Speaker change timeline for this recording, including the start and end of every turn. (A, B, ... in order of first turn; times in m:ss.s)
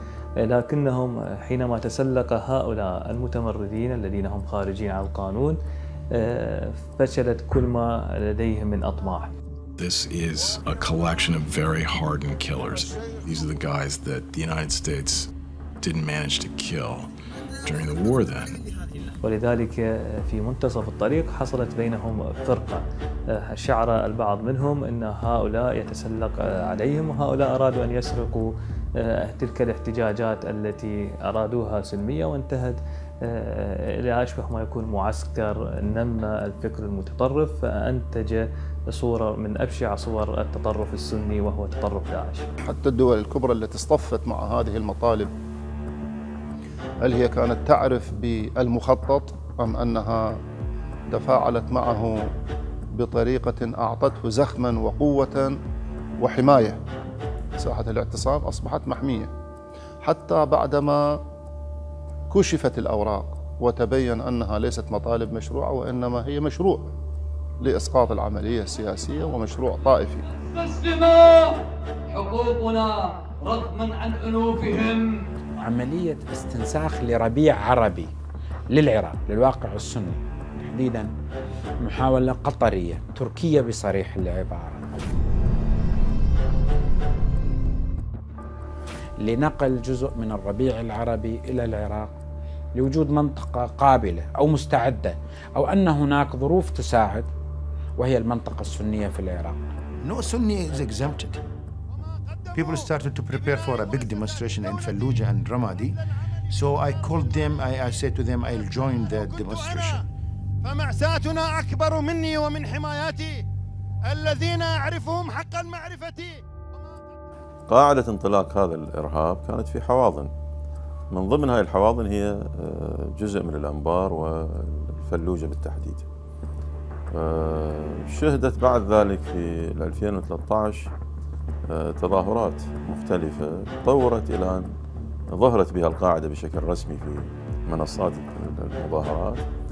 0:00.4-0:05.6 A
0:06.1-0:09.3 A
0:09.8-0:15.3 B
0:15.8-0:17.1 B
0:17.6-0:18.6 B
0:19.2-0:42.5 A
0:42.6-0:45.3 C
0:47.0-0:50.4 C
0:51.1-0:52.3 C
0:52.9-0:55.6 C
0:56.2-0:56.8 C
0:57.6-0:59.3 C
1:00.0-1:01.2 C
1:02.3-1:06.9 C
1:07.6-1:10.2 C
1:10.3-1:15.3 D
1:15.6-1:18.1 E
1:18.7-1:21.1 E
1:21.8-1:24.9 E
1:29.2-1:32.1 E
1:32.8-1:37.3 E
1:38.0-1:39.6 E
1:40.0-1:41.4 F
1:42.0-1:42.9 G
1:42.5-1:45.9 F
1:46.5-1:50.0 F
1:49.1-1:50.0 G
1:50.6-1:53.4 G
1:54.1-1:56.4 G
1:57.7-2:00.3 H
2:01.1-2:06.0 H
2:07.1-2:10.9 H
2:11.7-2:14.7 H
2:15.3-2:19.4 H